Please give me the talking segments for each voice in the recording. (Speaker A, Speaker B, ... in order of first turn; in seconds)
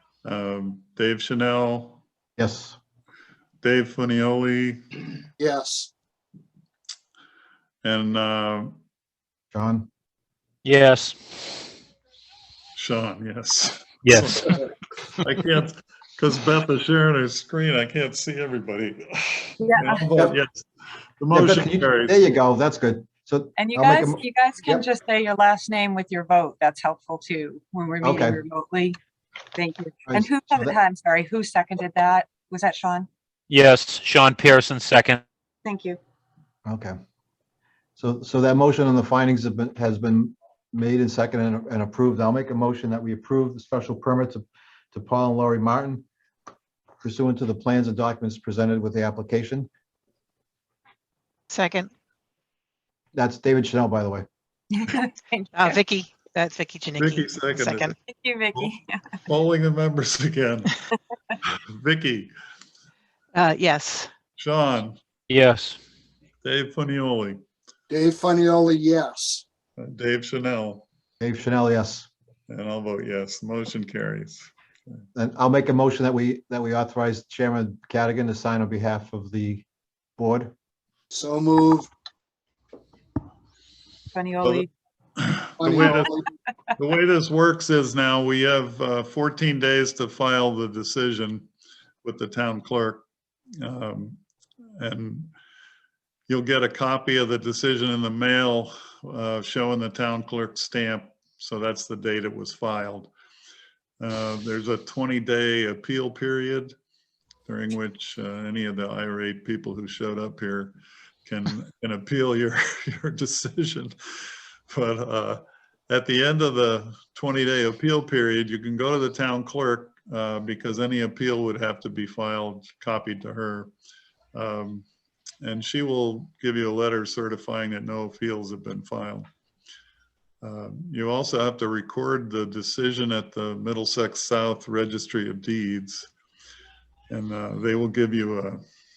Speaker A: 0.2-2.0, 3.6-4.8, 7.8-8.8, 12.8-14.5, 15.2-20.6, 21.2-22.2, 57.0-57.9, 59.2-60.8, 61.7-62.3, 64.4-65.0, 66.4-67.4, 69.8-70.8, 72.5-74.5, 85.2-86.1, 86.8-91.5, 92.0-93.0, 93.6-94.2, 94.8-95.3, 96.3-103.1, 104.0-106.7, 107.5-113.9, 114.7-123.7, 124.3-124.9, 125.4-129.3, 130.4-136.1, 137.1-138.6
Speaker B: 2.4-2.8, 9.5-9.9, 21.3-24.8, 28.0-28.4, 30.1-30.8, 36.6-36.9, 38.0-46.0, 47.0-49.7, 53.1-54.2, 71.2-72.1, 75.1-79.6, 80.2-80.5
Speaker C: 5.4-5.9, 67.9-69.5, 81.1-81.9, 85.6-86.2
Speaker D: 10.6-11.4, 14.0-14.5, 33.5-35.2, 65.3-65.8
Speaker E: 19.6-20.1, 23.6-29.0, 29.6-33.1, 35.6-36.0, 54.7-55.8, 58.1-59.0, 84.1-84.7
Speaker F: 51.5-51.9, 55.5-58.0, 63.3-64.1